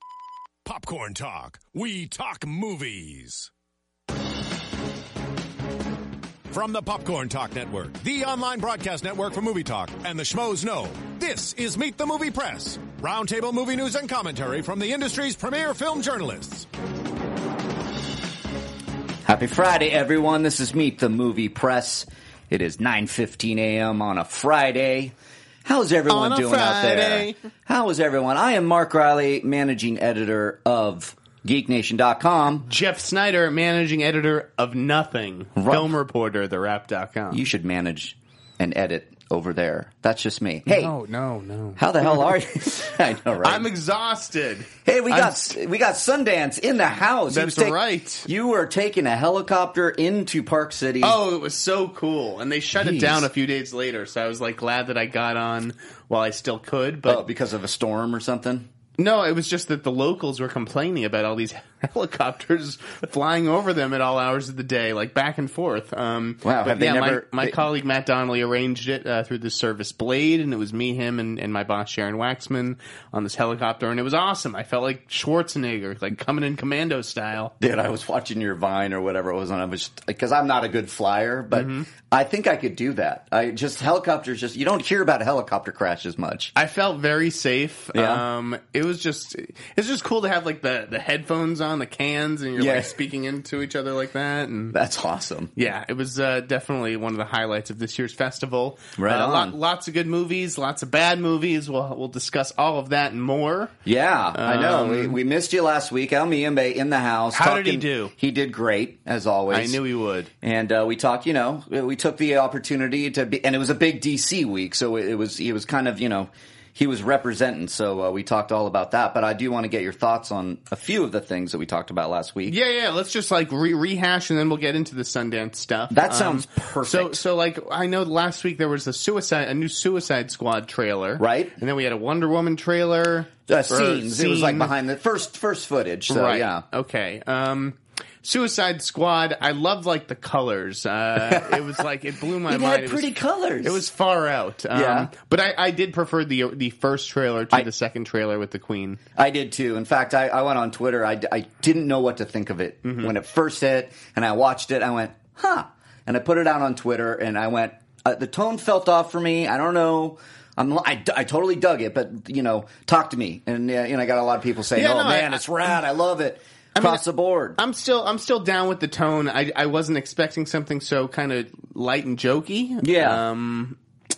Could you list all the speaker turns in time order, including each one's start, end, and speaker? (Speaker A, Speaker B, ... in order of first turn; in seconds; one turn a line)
Speaker A: 0.6-3.5
Speaker A: 6.5-16.7
Speaker B: 19.2-32.6
Speaker C: 26.1-27.4
Speaker C: 32.7-37.4
Speaker B: 35.5-35.9
Speaker B: 37.3-40.9
Speaker C: 40.7-42.4
Speaker B: 41.8-43.7
Speaker C: 43.4-45.5
Speaker B: 44.9-51.2
Speaker C: 47.3-48.3
Speaker C: 51.0-57.2
Speaker B: 52.8-53.3
Speaker B: 57.0-58.7
Speaker C: 59.0-77.5
Speaker B: 66.4-67.6
Speaker B: 77.6-86.5
Speaker C: 81.5-81.9
Speaker C: 86.5-94.8
Speaker B: 87.9-88.2
Speaker B: 92.6-92.9
Speaker B: 94.7-95.5
Speaker C: 95.5-103.7
Speaker B: 99.0-99.6
Speaker B: 103.8-109.8
Speaker C: 104.3-105.2
Speaker C: 107.3-108.1
Speaker C: 109.5-110.3
Speaker B: 110.4-122.5
Speaker C: 122.5-134.7
Speaker B: 125.9-127.2
Speaker B: 131.2-131.5
Speaker B: 133.5-136.6
Speaker C: 136.1-149.0
Speaker B: 141.3-141.6
Speaker B: 142.5-143.8
Speaker B: 144.7-145.1
Speaker B: 149.2-167.6
Speaker C: 152.8-153.1
Speaker C: 164.7-165.7
Speaker C: 166.7-167.0
Speaker C: 167.6-173.8
Speaker B: 172.8-173.2